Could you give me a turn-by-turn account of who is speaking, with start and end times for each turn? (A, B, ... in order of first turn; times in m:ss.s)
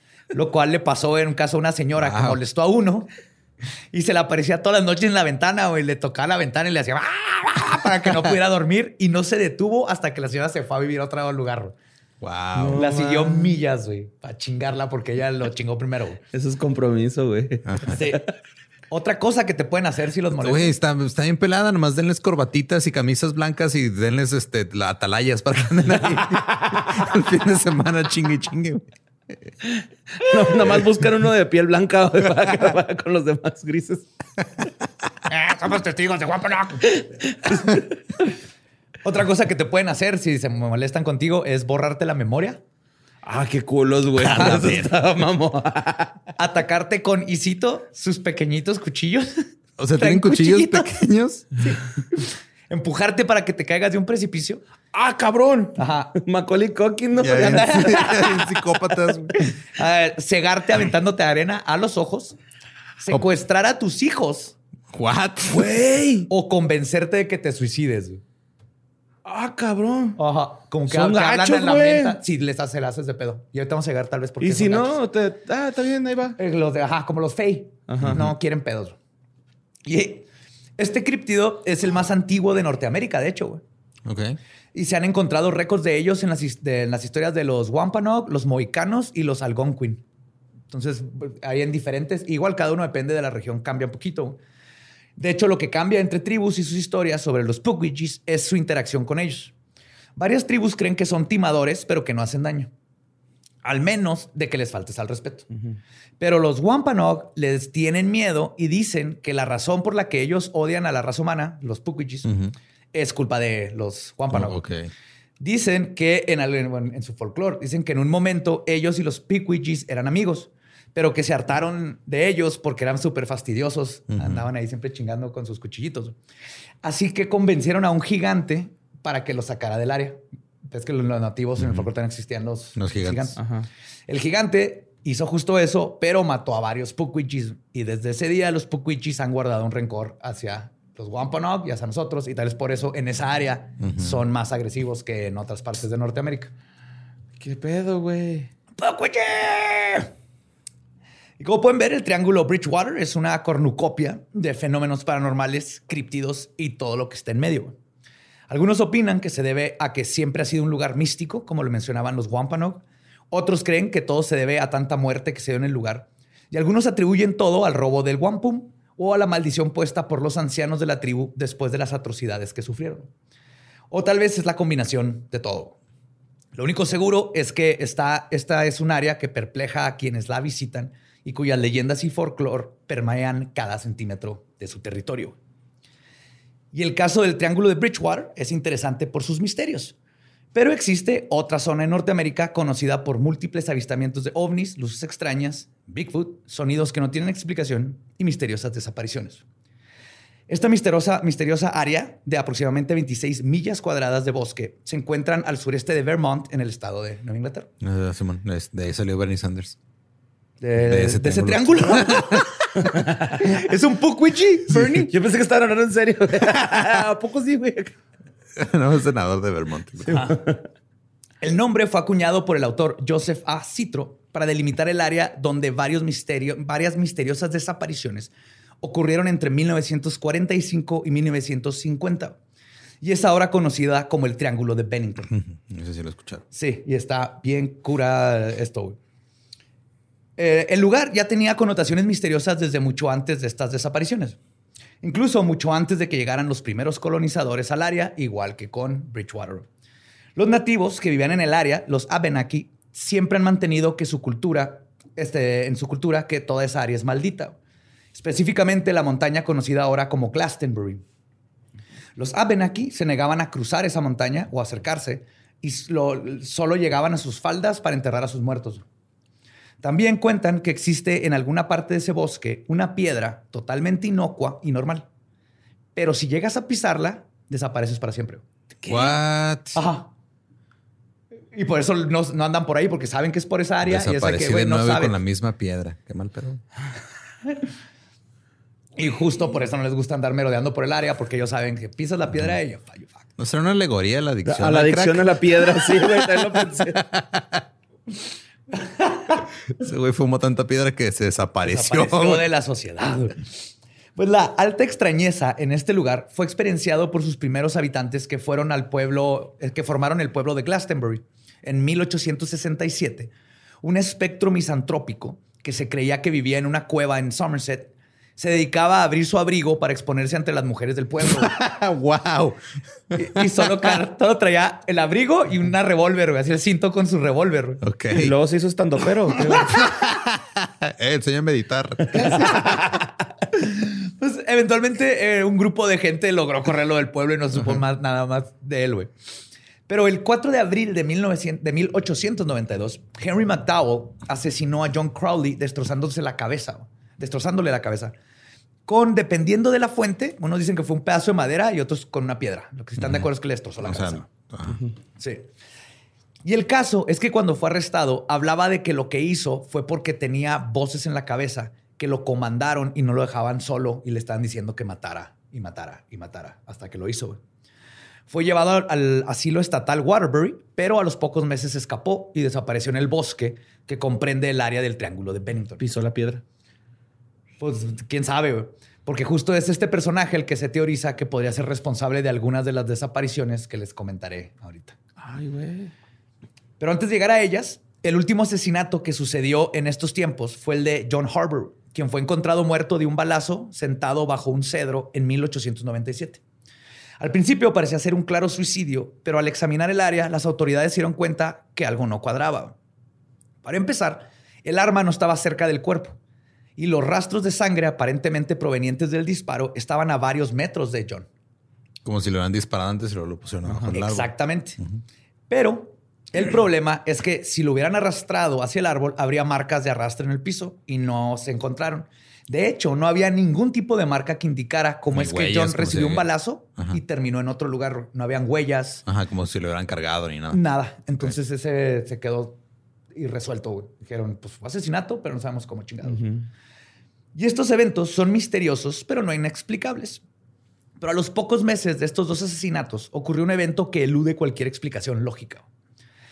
0:00.3-0:03.1 A
0:02.0-0:02.4 B
0:03.9-0:11.8 A
0:12.2-0:12.8 B
0:12.5-0:13.6 C
0:12.7-0:16.2 A
0:16.3-0:18.2 C
0:17.8-0:18.2 A
0:18.9-0:20.7 A
0:20.4-0:28.8 B
0:26.2-0:26.9 C
0:29.6-0:34.1 C
0:35.3-0:36.9 A
0:36.8-0:38.3 C
0:39.0-0:42.6 A
0:43.2-0:46.2 C
0:44.2-0:44.9 B
0:44.2-0:44.8 A
0:46.4-0:49.4 A
0:49.8-0:51.7 B
0:49.9-0:54.6 A
0:54.9-0:59.1 C
0:55.8-0:56.2 A
0:57.2-0:59.3 B
0:57.2-0:58.6 A
0:59.4-1:02.4 A
1:03.0-1:04.5 A
1:04.9-1:05.8 B
1:05.5-1:06.3 C
1:06.3-1:08.2 A
1:09.2-1:10.2 C
1:10.2-1:15.0 A
1:10.9-1:12.2 C
1:14.4-1:16.4 C
1:16.4-1:19.0 A
1:17.9-1:18.2 C
1:18.0-1:18.3 B
1:19.8-1:20.2 A
1:20.8-1:23.6 A
1:24.0-1:24.4 B
1:24.7-1:30.0 A
1:30.7-1:34.4 A
1:35.2-1:39.5 A
1:40.2-1:42.7 A
1:43.6-1:45.5 A
1:46.2-1:52.3 A
1:52.2-1:52.5 B
1:52.9-1:54.6 A
1:54.3-1:54.9 B
1:55.4-2:06.2 A
2:04.1-2:04.4 B
2:06.8-2:13.4 A
2:11.6-2:11.9 B
2:12.8-2:13.3 B
2:13.4-2:13.7 C
2:14.1-2:26.5 A
2:23.8-2:24.2 B
2:27.4-2:28.5 C
2:28.8-2:30.1 A
2:31.4-2:37.8 A
2:38.5-2:53.1 A
2:53.9-2:55.7 A
2:56.5-3:05.4 A
3:06.7-3:09.9 A
3:10.5-3:19.4 A
3:20.5-3:27.7 A
3:27.8-3:29.8 B
3:30.6-3:32.7 A
3:30.8-3:32.5 B
3:32.8-3:33.4 C
3:33.4-3:35.1 A
3:34.7-3:37.9 C
3:38.6-3:40.3 B
3:40.1-3:40.4 A
3:40.1-3:40.6 C
3:41.4-3:48.3 A
3:48.8-3:52.4 A
3:53.0-3:55.3 A
3:55.3-3:56.4 B
3:56.5-3:59.0 A
4:00.4-4:04.4 A
4:05.0-4:09.7 A
4:10.4-4:17.6 A
4:18.1-4:21.0 A
4:22.2-4:28.8 A
4:29.8-4:35.1 A
4:35.9-4:39.2 A
4:38.8-4:39.8 B
4:39.7-4:40.1 A
4:41.5-4:45.2 A
4:43.8-4:46.6 B
4:49.0-4:53.3 A
4:53.4-4:57.6 B
4:54.4-4:57.0 C
4:58.8-4:59.4 A
4:59.8-5:02.5 B
5:01.6-5:21.6 A
5:21.2-5:22.6 B
5:23.1-5:23.4 B
5:23.1-5:27.8 A
5:27.8-5:28.3 B
5:28.1-5:29.9 C
5:29.8-5:32.7 B
5:32.1-5:33.0 A
5:33.5-5:39.1 A
5:39.9-5:48.1 A
5:48.8-5:54.3 A
5:53.0-5:53.3 B
5:53.8-5:54.8 B
5:55.2-5:55.4 A
5:56.4-6:07.4 A
6:08.3-6:15.8 A
6:15.8-6:16.4 C
6:17.6-6:25.0 A
6:25.2-6:25.9 C
6:26.8-6:36.4 A
6:37.2-6:42.8 A
6:43.6-6:46.2 A
6:46.8-6:51.3 A
6:52.0-6:55.0 B
6:53.9-6:54.8 A
6:55.5-7:09.0 A
7:05.1-7:06.3 B
7:09.0-7:10.6 B
7:10.5-7:12.6 A
7:13.1-7:16.3 A
7:16.0-7:16.5 C
7:17.3-7:20.2 A
7:21.0-7:25.6 A